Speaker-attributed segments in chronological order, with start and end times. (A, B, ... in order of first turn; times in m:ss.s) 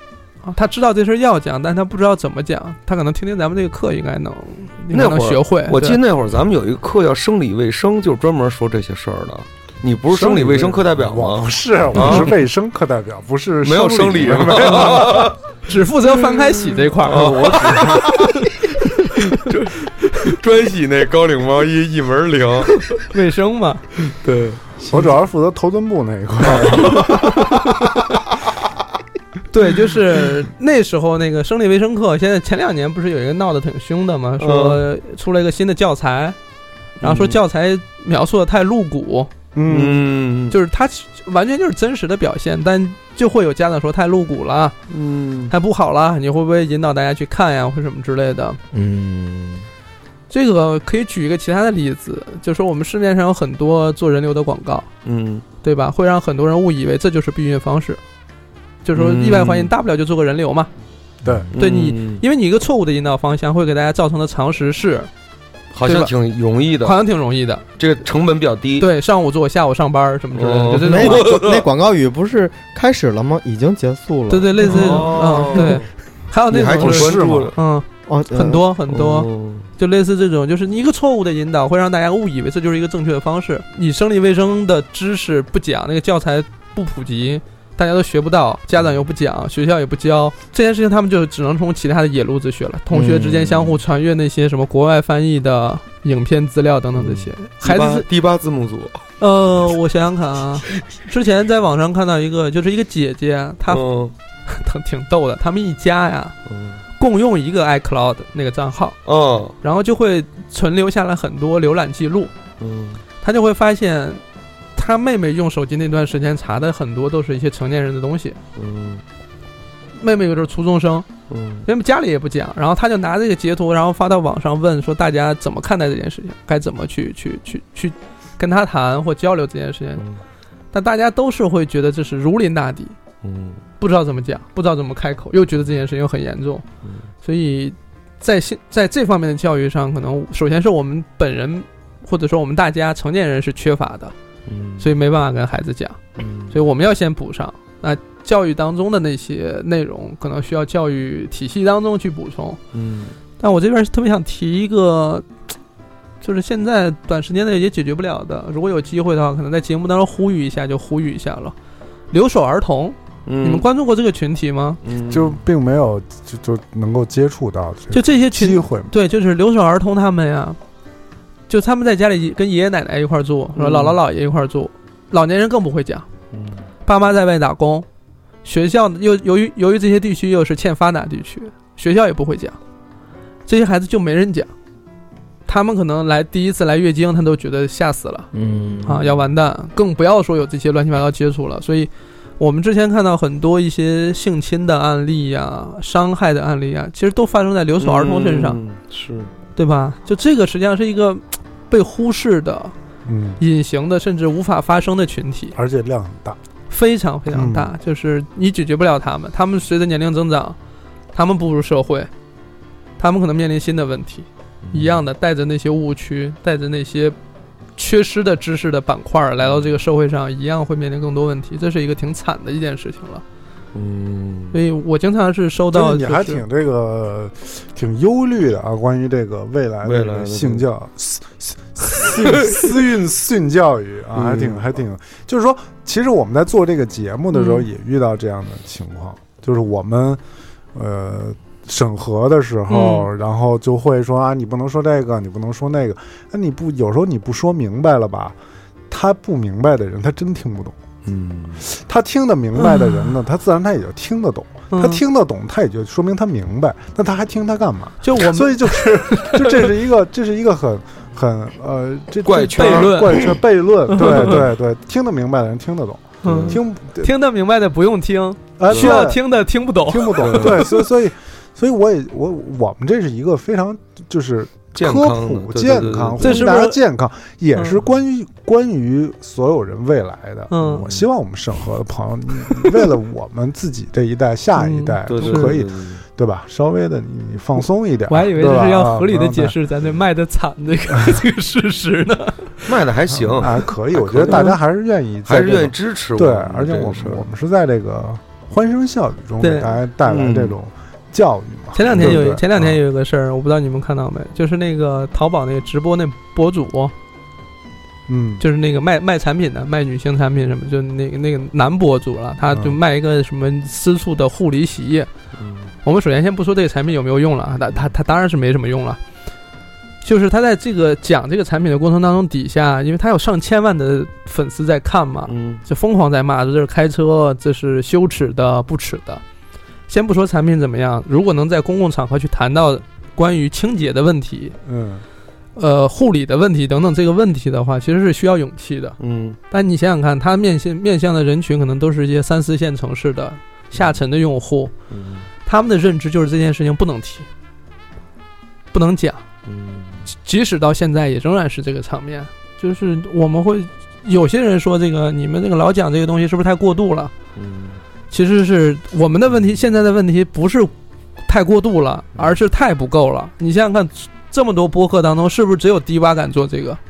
0:00.4-0:06.0 A
0:04.9-0:12.4 B
0:10.1-0:15.2 C
0:13.6-0:15.4 B
0:14.7-0:19.4 A
0:17.0-0:18.5 B
0:19.2-0:23.0 B
0:20.0-0:20.3 A
0:22.9-0:23.9 A
0:24.0-0:24.6 B
0:24.9-0:27.3 C
0:26.4-0:27.6 B
0:26.8-0:28.2 A
0:29.5-0:36.4 A
0:34.4-0:34.8 B
0:37.0-0:37.4 B
0:37.0-0:39.3 A
0:39.6-0:40.1 C
0:39.7-0:40.6 B
0:40.5-0:44.8 A
0:44.9-0:45.5 B
0:45.5-0:48.6 A
0:48.7-0:49.7 D
0:50.3-0:54.9 A
0:55.0-0:55.4 B
0:55.6-0:58.0 A
0:58.8-1:00.7 A
0:59.0-0:59.7 B
1:01.2-1:01.5 C
1:01.3-1:02.2 B
1:01.6-1:05.1 A
1:05.7-1:07.0 B
1:05.9-1:06.1 A
1:06.8-1:07.6 A
1:07.8-1:08.9 B
1:08.8-1:11.3 A
1:10.3-1:11.7 B
1:10.8-1:15.8 D
1:14.3-1:38.1 A
1:14.6-1:15.9 B
1:16.5-1:17.6 B
1:16.7-1:17.6 C
1:18.1-1:18.6 D
1:18.9-1:19.7 B
1:32.9-1:33.8 D
1:37.0-1:39.0 B
1:39.2-1:43.8 A
1:43.7-1:44.1 B
1:44.5-1:46.3 A
1:46.5-1:46.8 B
1:47.0-1:49.0 A
1:49.1-1:49.6 B
1:49.6-1:52.3 A
1:52.6-1:53.0 B
1:53.2-1:54.2 A
1:54.8-1:58.4 A
1:58.6-1:59.0 B
2:00.0-2:01.1 A
2:01.3-2:01.7 B
2:01.6-2:10.0 A
2:10.7-2:13.0 A
2:13.2-2:13.6 B
2:13.8-2:16.6 A
2:17.2-2:24.1 A
2:24.5-2:24.9 B
2:24.8-2:26.0 A
2:26.2-2:26.6 B
2:26.5-2:32.6 A
2:32.7-2:33.2 B
2:33.4-2:35.3 A
2:36.2-2:41.6 A
2:42.1-2:44.8 A
2:43.3-2:43.7 B
2:44.8-2:45.4 B
2:45.1-2:48.9 C
2:47.9-2:50.6 A
2:51.5-2:56.1 A
2:53.6-2:54.0 B
2:56.3-2:56.6 B
2:56.8-2:57.9 A
2:58.4-3:02.6 A
3:03.5-3:04.5 A
3:05.5-3:08.3 A
3:08.3-3:09.0 D
3:08.5-3:09.2 B
3:08.8-3:18.6 A
3:17.8-3:19.3 B
3:19.6-3:22.7 A
3:23.1-3:23.4 C
3:23.4-3:25.6 A
3:25.6-3:26.4 C
3:26.7-3:30.6 A
3:27.3-3:27.7 C
3:31.1-3:32.1 A
3:33.0-3:37.2 A
3:34.6-3:35.0 B
3:37.8-3:43.2 A
3:39.4-3:39.7 B
3:43.7-3:44.6 B
3:44.5-3:46.4 A
3:45.7-4:00.2 C
3:49.8-3:50.6 B
3:52.2-3:52.8 B
3:54.2-3:54.6 B
3:57.3-3:57.7 A
4:00.7-4:08.4 C
4:02.7-4:03.1 A
4:08.9-4:10.8 C
4:11.1-4:11.6 B
4:11.6-4:27.1 C
4:12.6-4:13.1 A
4:14.7-4:15.0 A
4:18.0-4:19.8 A
4:22.2-4:23.4 B
4:22.6-4:23.3 A
4:23.9-4:24.4 A
4:24.0-4:24.4 B
4:26.2-4:30.8 A
4:26.2-4:26.6 B
4:28.6-4:29.2 C
4:28.7-4:29.1 B
4:29.8-4:49.6 C
4:30.2-4:30.7 B
4:34.8-4:36.5 B
4:36.2-4:36.8 A
4:40.5-4:40.9 A
4:40.6-4:41.0 B
4:44.6-4:45.5 A
4:45.1-4:46.0 B
4:48.1-4:52.8 A
4:52.7-4:54.5 B
4:53.1-5:02.8 C
4:54.3-4:54.5 A
4:55.3-4:57.2 B
4:59.4-4:59.8 A
5:00.1-5:00.6 B
5:01.8-5:06.9 A
5:01.9-5:02.2 B
5:08.1-5:08.4 C
5:08.4-5:15.1 A
5:12.5-5:12.8 C
5:15.4-5:15.7 B
5:15.8-5:19.0 A
5:20.0-5:29.2 A
5:25.3-5:25.6 B
5:29.9-5:34.6 A
5:34.6-5:35.0 C
5:35.6-5:39.0 A
5:39.0-5:39.4 B
5:39.5-5:44.7 A
5:44.9-5:45.3 B
5:45.5-5:47.3 A
5:48.7-5:49.2 A
5:49.5-5:50.1 B
5:50.2-5:57.1 A
5:57.4-5:57.8 B
5:58.1-6:00.7 A
6:01.3-6:06.8 A